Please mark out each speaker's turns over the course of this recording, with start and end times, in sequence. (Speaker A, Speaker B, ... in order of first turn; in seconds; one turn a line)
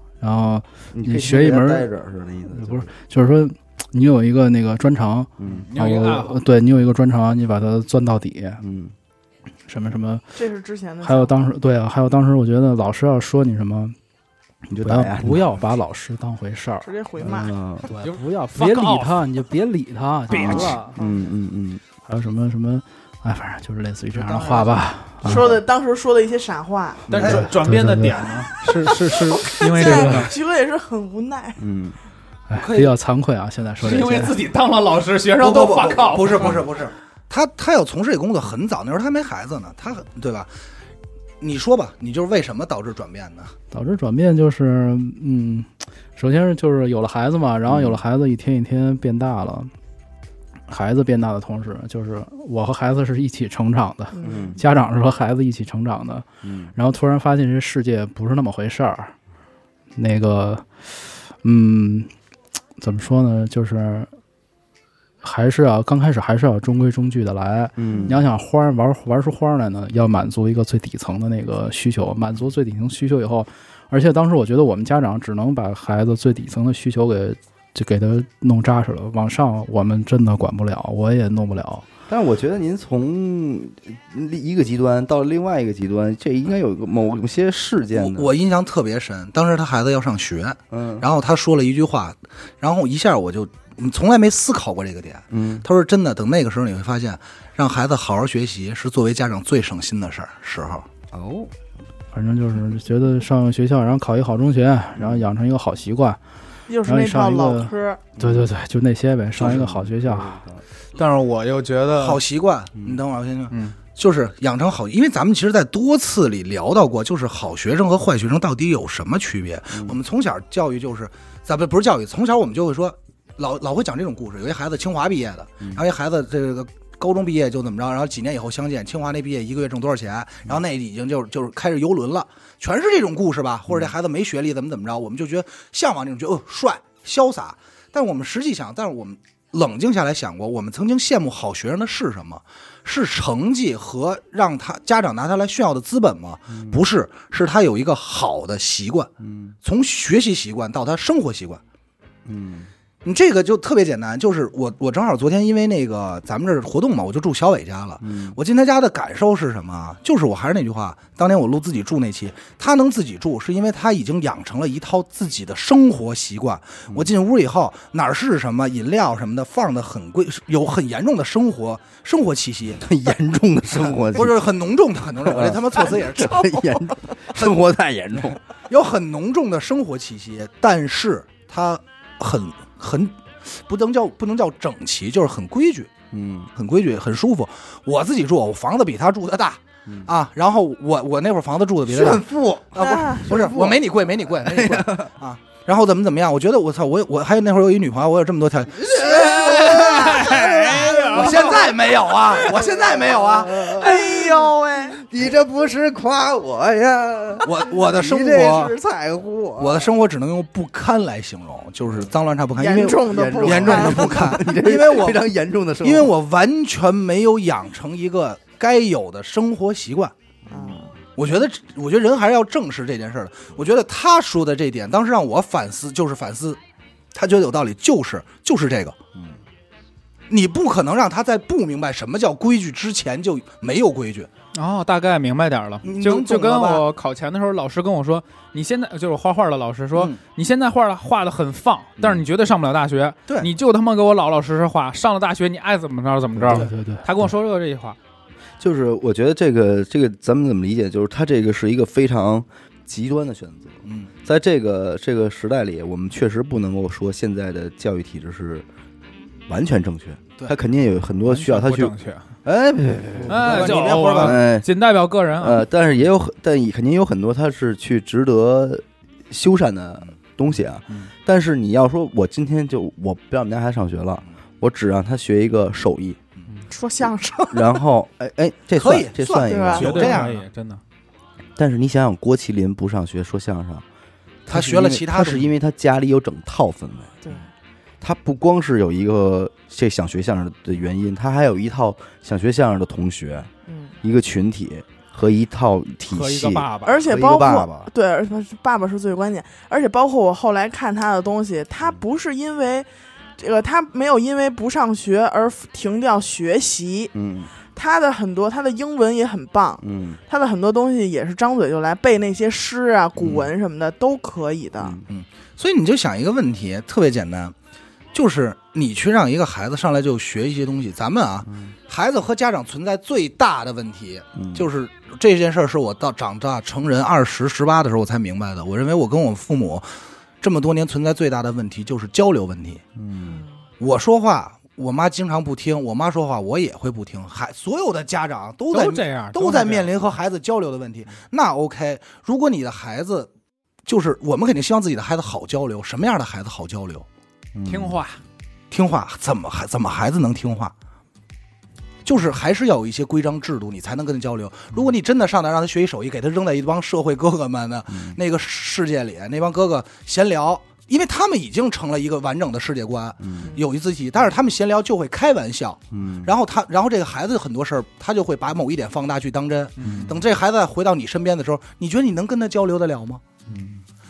Speaker A: 0.2-1.9
Speaker B: 0.9-2.9
Speaker A: 2.5-8.6
Speaker B: 5.4-5.7
Speaker C: 5.5-6.4
Speaker B: 8.6-8.9
Speaker A: 9.7-10.2
Speaker D: 10.3-11.3
Speaker A: 11.0-13.9
Speaker B: 14.7-15.6
Speaker A: 14.8-16.9
Speaker D: 16.8-17.5
Speaker B: 17.2-17.9
Speaker A: 17.9-21.0
Speaker C: 18.0-19.3
Speaker C: 20.3-20.8
Speaker B: 20.3-21.8
Speaker D: 21.0-21.2
Speaker A: 22.0-25.6
Speaker E: 24.2-24.7
Speaker D: 25.2-27.1
Speaker A: 27.1-28.3
Speaker C: 27.1-30.3
Speaker E: 27.2-27.4
Speaker D: 29.5-31.6
Speaker A: 29.8-30.3
Speaker B: 31.6-31.9
Speaker A: 32.5-34.4
Speaker E: 32.5-32.9
Speaker C: 33.8-36.6
Speaker E: 35.4-40.5
Speaker E: 41.4-43.5
Speaker A: 43.7-49.7
Speaker B: 47.6-48.0
Speaker A: 50.7-59.1
Speaker D: 54.1-54.6
Speaker B: 54.2-54.6
Speaker B: 56.4-56.7
Speaker A: 59.9-60.8
Speaker A: 61.4-62.1
Speaker A: 62.8-64.1
Speaker A: 65.2-81.9
Speaker B: 67.8-68.2
Speaker D: 67.9-68.2
Speaker B: 82.1-88.3
Speaker E: 87.9-100.8
Speaker B: 90.7-91.1
Speaker B: 95.3-95.7
Speaker B: 101.1-101.5
Speaker A: 102.1-106.2
Speaker B: 105.0-105.3
Speaker D: 106.7-108.0
Speaker A: 106.8-110.4
Speaker B: 108.2-108.5
Speaker B: 109.4-110.6
Speaker C: 111.0-112.2
Speaker E: 111.9-149.1
Speaker C: 113.5-113.8
Speaker B: 146.5-146.8
Speaker B: 149.2-149.5
Speaker E: 149.6-151.6
Speaker B: 152.2-152.7
Speaker E: 153.0-172.8
Speaker B: 158.0-158.4
Speaker B: 172.8-174.4
Speaker E: 174.1-176.8
Speaker B: 175.2-178.4
Speaker E: 178.7-185.9
Speaker B: 186.1-186.5
Speaker E: 186.5-200.3
Speaker B: 191.8-195.1
Speaker D: 192.8-193.3
Speaker B: 198.7-209.9
Speaker C: 199.0-201.6
Speaker E: 201.0-203.7
Speaker D: 203.6-205.0
Speaker E: 207.4-208.7
Speaker E: 209.6-215.2
Speaker D: 212.6-214.5
Speaker B: 212.9-216.1
Speaker E: 215.8-220.1
Speaker B: 220.5-220.8
Speaker D: 220.5-220.9
Speaker E: 221.2-226.6
Speaker E: 227.1-228.9
Speaker E: 230.3-234.3
Speaker C: 234.5-248.0
Speaker E: 235.8-236.8
Speaker A: 246.5-247.1
Speaker B: 248.6-258.6
Speaker E: 253.8-254.1
Speaker B: 259.5-261.9
Speaker C: 261.2-262.2
Speaker B: 262.4-264.7
Speaker E: 263.3-264.4
Speaker C: 263.3-265.6
Speaker B: 265.4-276.2
Speaker D: 276.7-277.6
Speaker B: 277.5-280.2
Speaker E: 278.8-280.4
Speaker D: 279.4-280.2
Speaker C: 279.7-280.8
Speaker B: 281.6-283.8
Speaker B: 284.5-287.1
Speaker E: 284.5-285.5
Speaker D: 287.2-287.5
Speaker B: 288.0-293.5
Speaker D: 293.7-293.9
Speaker B: 294.0-297.9
Speaker C: 296.1-297.0
Speaker D: 296.8-302.9
Speaker D: 303.4-307.1
Speaker B: 307.1-307.5
Speaker D: 307.7-315.0
Speaker B: 309.8-310.2
Speaker B: 314.8-315.1
Speaker E: 315.1-317.5
Speaker E: 318.1-329.9
Speaker B: 321.5-321.7
Speaker B: 324.4-324.6
Speaker E: 330.4-332.8
Speaker B: 333.0-333.4
Speaker E: 333.8-343.3
Speaker C: 338.7-339.9
Speaker E: 343.9-347.1
Speaker B: 347.6-347.9
Speaker C: 347.6-348.2
Speaker E: 348.7-350.7
Speaker E: 352.0-373.2
Speaker B: 363.2-363.5
Speaker B: 365.9-366.3
Speaker C: 369.8-370.1